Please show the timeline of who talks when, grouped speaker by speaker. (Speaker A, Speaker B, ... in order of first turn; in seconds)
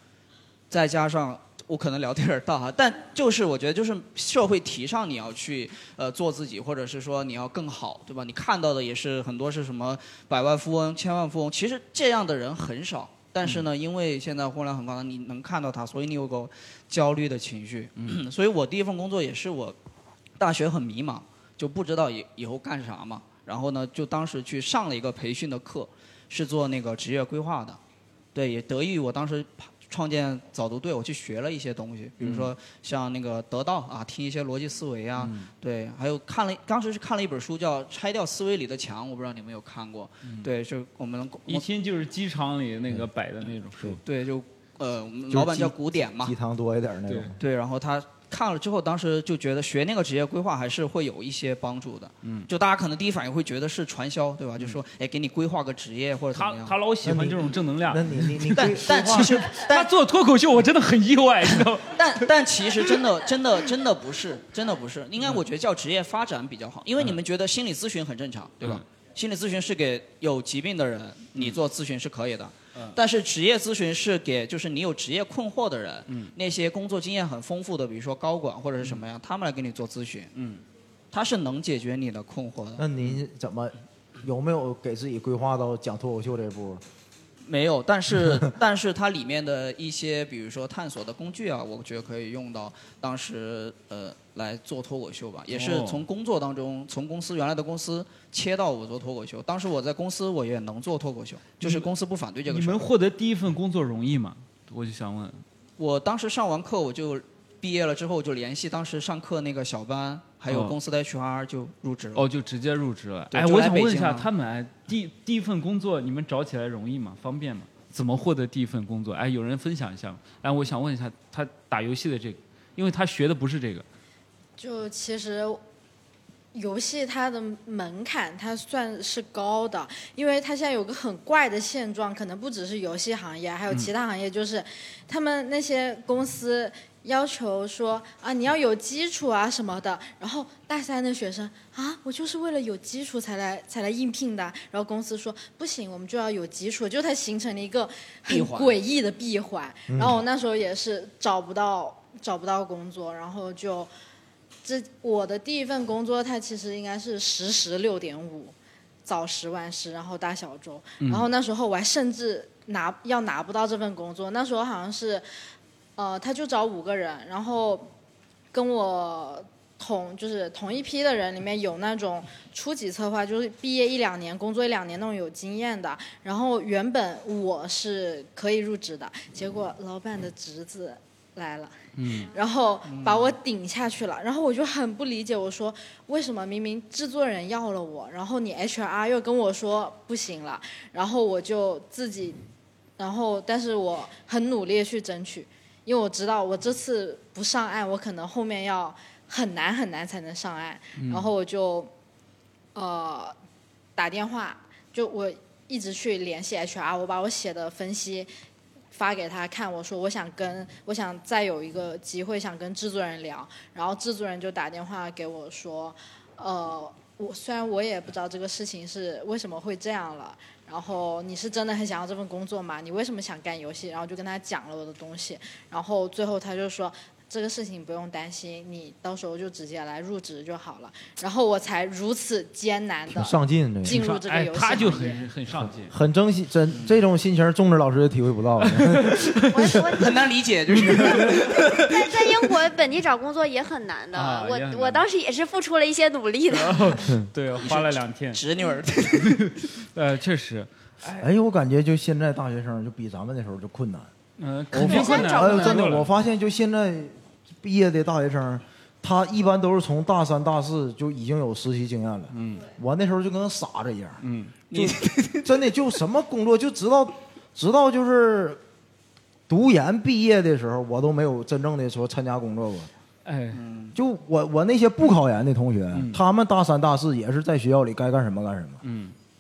Speaker A: 0.7-19.8, 20.4-27.8, 28.3-41.6, 44.0-46.3, 47.4-56.8, 58.5-59.9, 61.9-80.3, 81.1-82.8, 87.4-102.9, 105.8-112.3, 113.3-114.3, 148.3-148.8, 182.0-182.2, 182.8-183.3, 236.7-237.0, 239.7-241.9, 247.6-249.5, 264.7-265.5, 273.5-273.9
Speaker B: 32.2-32.5, 35.2-35.5, 41.5-44.0, 47.1-47.3, 52.2-52.5, 56.3-62.3, 76.1-76.3, 80.3-80.6, 95.5-96.0, 101.6-101.9, 102.5-105.4, 110.5-110.8, 112.2-123.8, 161.0-161.3, 233.9-235.9, 238.6-239.5, 244.1-245.0, 246.5-248.4, 249.2-251.3, 254.4-256.1, 262.3-262.6, 264.2-264.5, 273.2-273.6, 275.9-276.2, 278.8-279.1
Speaker C: 45.3-47.4, 57.0-59.4, 82.8-86.8, 149.9-150.2, 233.1-234.0, 235.6-239.3, 240.8-241.5, 251.2-254.1, 254.7-268.6, 269.5-272.9, 273.9-278.8
Speaker D: 124.6-125.6, 126.5-153.9, 154.6-165.2, 166.0-167.9, 168.5-192.4, 193.0-201.9, 202.7-203.3, 203.9-208.3, 208.9-235.3
Speaker E: 239.5-240.1, 241.9-247.0, 254.9-255.3